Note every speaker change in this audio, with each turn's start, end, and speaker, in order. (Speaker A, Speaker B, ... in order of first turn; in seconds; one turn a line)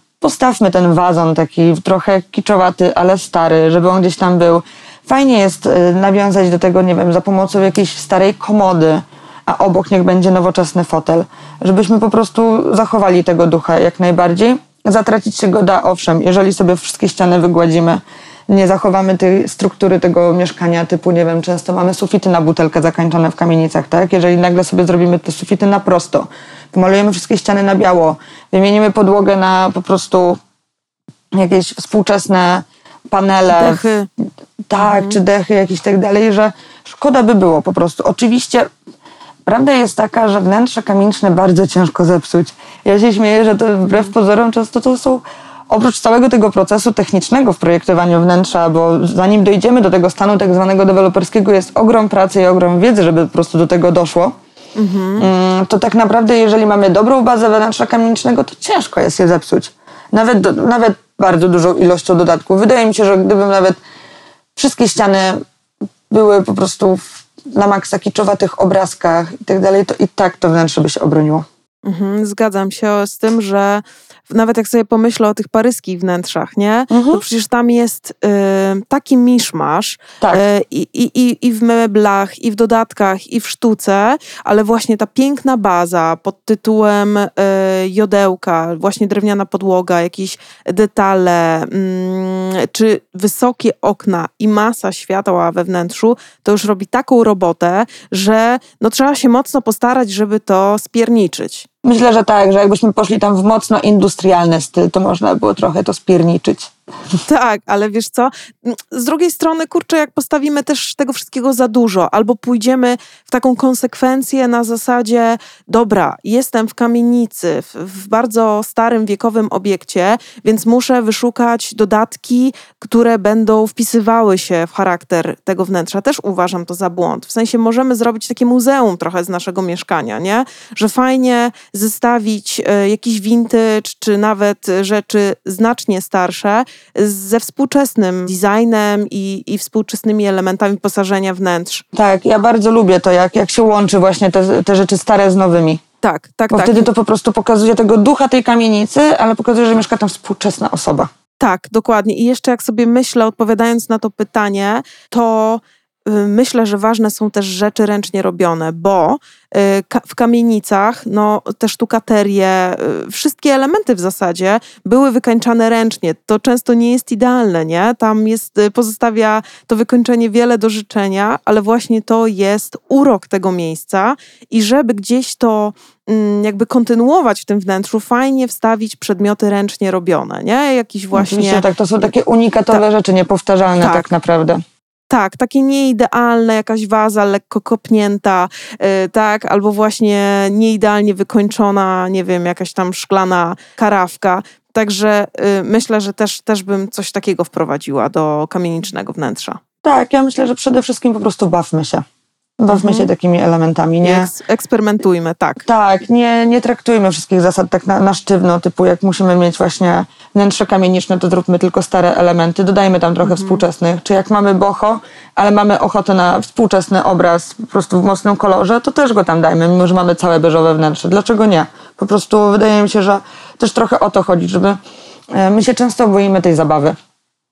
Speaker A: 0.2-30.4
Speaker A: 31.3-33.9
Speaker B: 33.5-34.1
Speaker A: 34.7-38.7
Speaker B: 34.8-35.2
Speaker A: 39.5-54.3
Speaker B: 54.8-55.3
Speaker A: 55.2-63.8
Speaker A: 64.6-65.4
Speaker A: 66.1-71.5
Speaker B: 71.8-101.7
Speaker A: 76.9-77.2
Speaker A: 101.8-106.7
Speaker B: 107.3-141.8
Speaker A: 141.9-145.8
Speaker B: 146.0-146.9
Speaker A: 146.5-151.1
Speaker B: 151.4-181.7
Speaker A: 181.1-184.6
Speaker B: 183.8-184.1
Speaker B: 185.1-199.6
Speaker A: 199.8-202.0
Speaker A: 202.6-204.3
Speaker B: 202.7-203.1
Speaker B: 204.0-205.7
Speaker A: 205.7-224.8
Speaker B: 213.2-213.6
Speaker A: 225.3-227.0